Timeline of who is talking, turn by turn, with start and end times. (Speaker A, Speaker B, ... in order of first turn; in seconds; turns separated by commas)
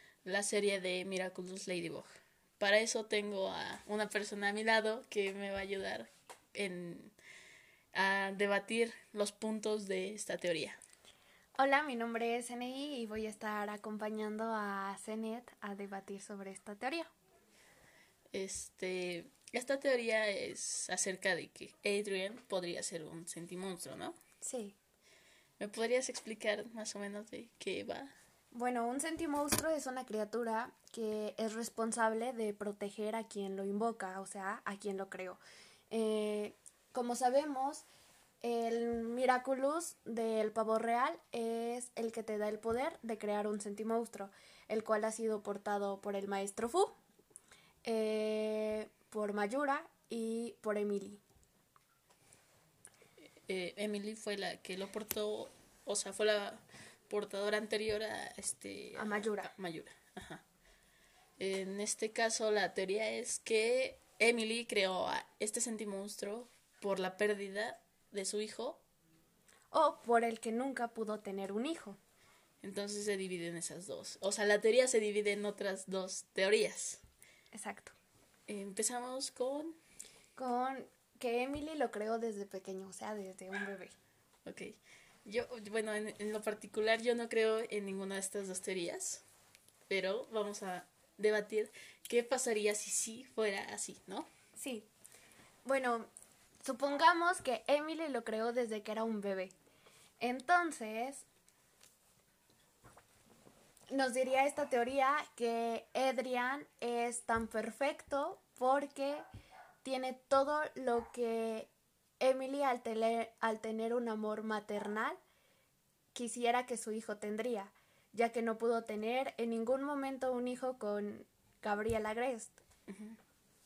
Speaker A: 0.2-2.0, Speaker A: 2.6-7.1, Speaker A: 7.9-10.8, Speaker B: 11.6-17.1, Speaker A: 18.3-24.1, Speaker B: 24.4-24.8, Speaker A: 25.6-28.1, Speaker B: 28.5-37.8, Speaker B: 38.4-46.9, Speaker B: 47.8-51.2, Speaker A: 53.5-60.4, Speaker B: 59.0-59.5, Speaker A: 61.4-68.8, Speaker B: 69.7-72.0, Speaker A: 72.6-77.0, Speaker B: 77.5-77.9, Speaker A: 78.5-79.8, Speaker B: 80.3-84.0, Speaker A: 84.4-89.2, Speaker A: 89.9-94.3, Speaker B: 94.5-94.9, Speaker B: 95.6-96.1, Speaker B: 96.6-99.5, Speaker B: 100.2-101.2, Speaker B: 103.9-109.2, Speaker B: 109.8-115.2, Speaker B: 116.1-122.6, Speaker A: 122.9-123.2